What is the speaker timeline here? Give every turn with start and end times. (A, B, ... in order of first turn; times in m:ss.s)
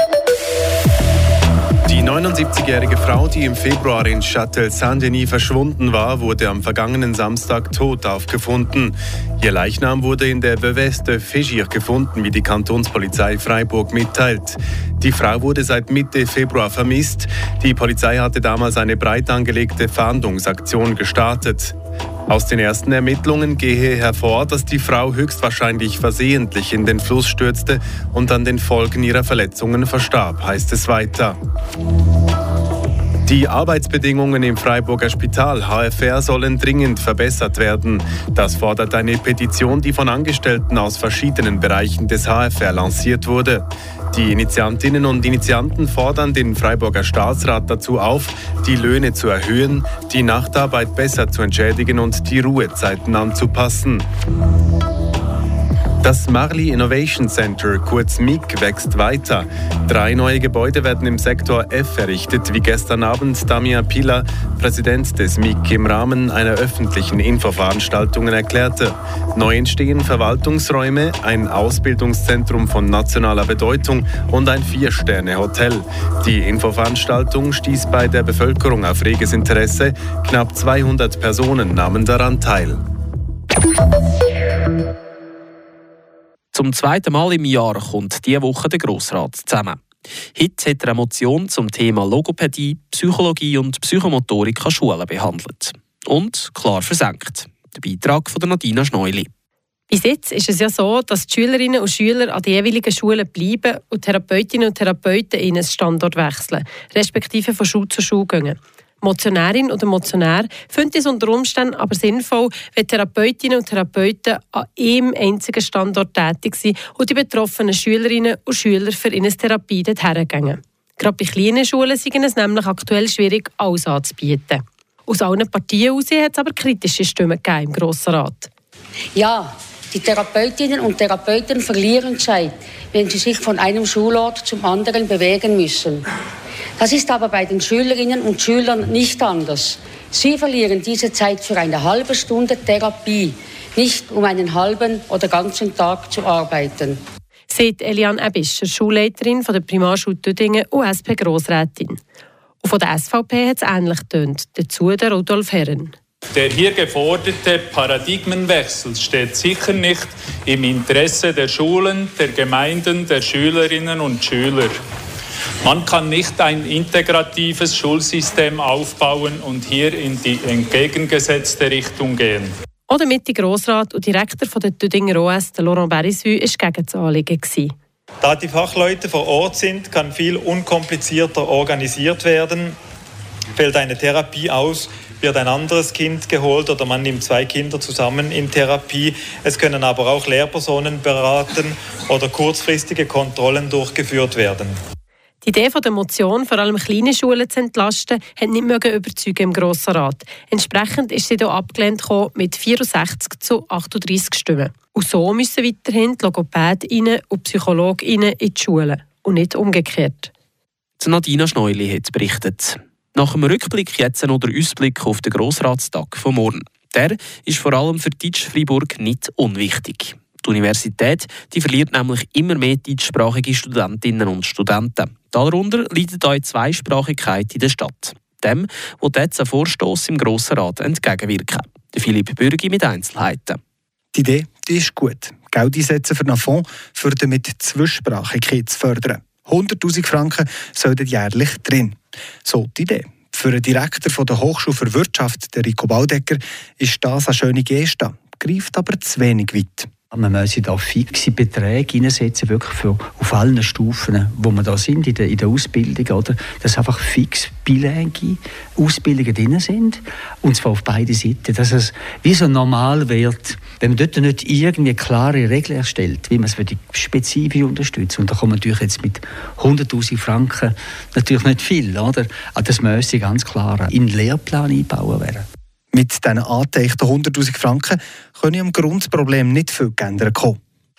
0:01.8-0:21.7 A
0:22.3-0:31.4 A
0:33.3-0:54.0 A
0:56.0-1:22.8 A
1:26.5-1:29.8 B
1:30.3-1:39.3 B
1:39.9-2:08.5 C
2:09.1-2:16.0 D
2:16.8-2:27.0 D
2:27.5-2:32.0 C
2:32.6-2:35.9 C
2:36.4-2:44.8 E
2:45.7-2:52.5 E
2:52.9-2:57.7 C
2:58.2-3:02.8 F
3:03.6-3:14.8 F
3:15.4-3:30.3 C
3:31.0-3:53.6 B
3:54.1-4:09.9 G
4:10.1-4:35.4 H
4:35.9-4:40.6 G